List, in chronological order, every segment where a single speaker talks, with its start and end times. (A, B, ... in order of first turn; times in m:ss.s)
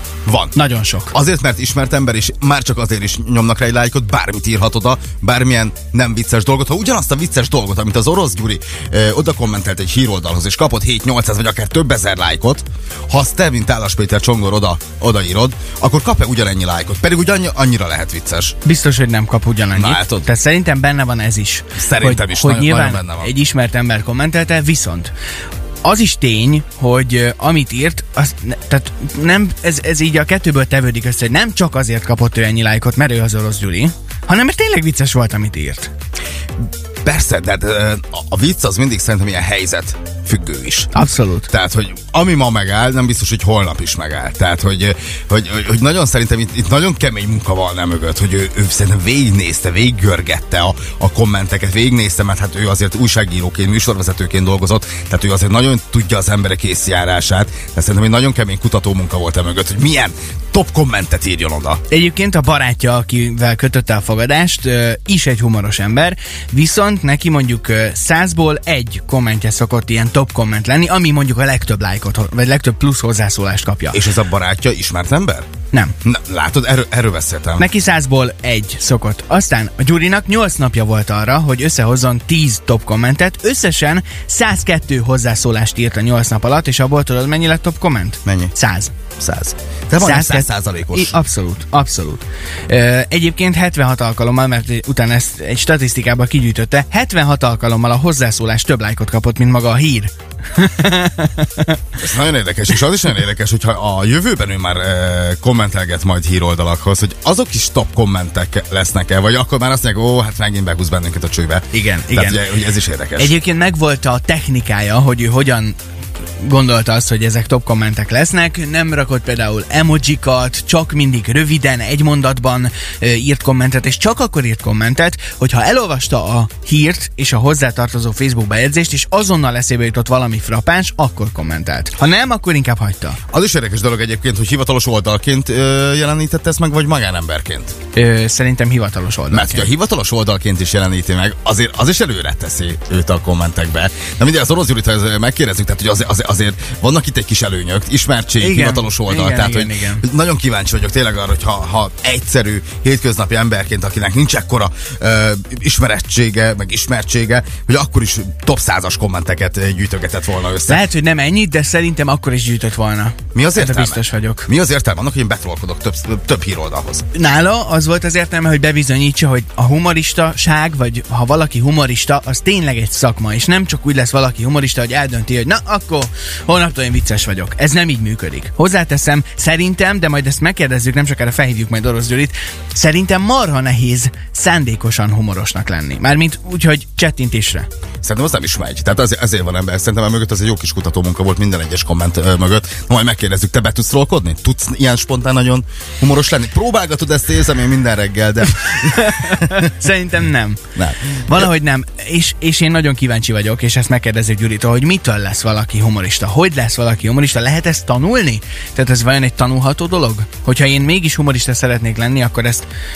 0:00.3-0:00.6 A
0:00.6-0:01.1 B
0:01.1-0:18.6 A
0:18.6-0:25.1 B
0:19.7-0:20.3 A
0:21.8-0:23.3 A
0:25.8-0:35.9 B
0:37.0-0:40.9 A
0:40.9-0:41.5 B
0:41.5-1:01.8 A
1:01.9-1:14.0 B
1:13.9-1:15.5 A
1:16.0-1:17.7 A
1:17.6-1:28.9 B
1:28.2-1:28.5 A
1:29.2-1:31.2 A
1:30.0-1:41.8 B
1:42.0-1:53.3 A
1:51.7-1:52.4 B
1:53.2-1:55.8 B
1:56.4-2:13.2 B
2:13.3-2:17.8 A
2:18.0-2:19.7 B
2:19.3-2:40.8 A
2:28.4-2:30.0 B
2:40.7-2:44.5 B
2:43.4-2:47.0 A
2:47.1-3:07.7 B
3:08.0-3:19.7 A
3:18.7-3:20.6 B
3:20.8-3:21.5 A
3:21.2-3:32.7 B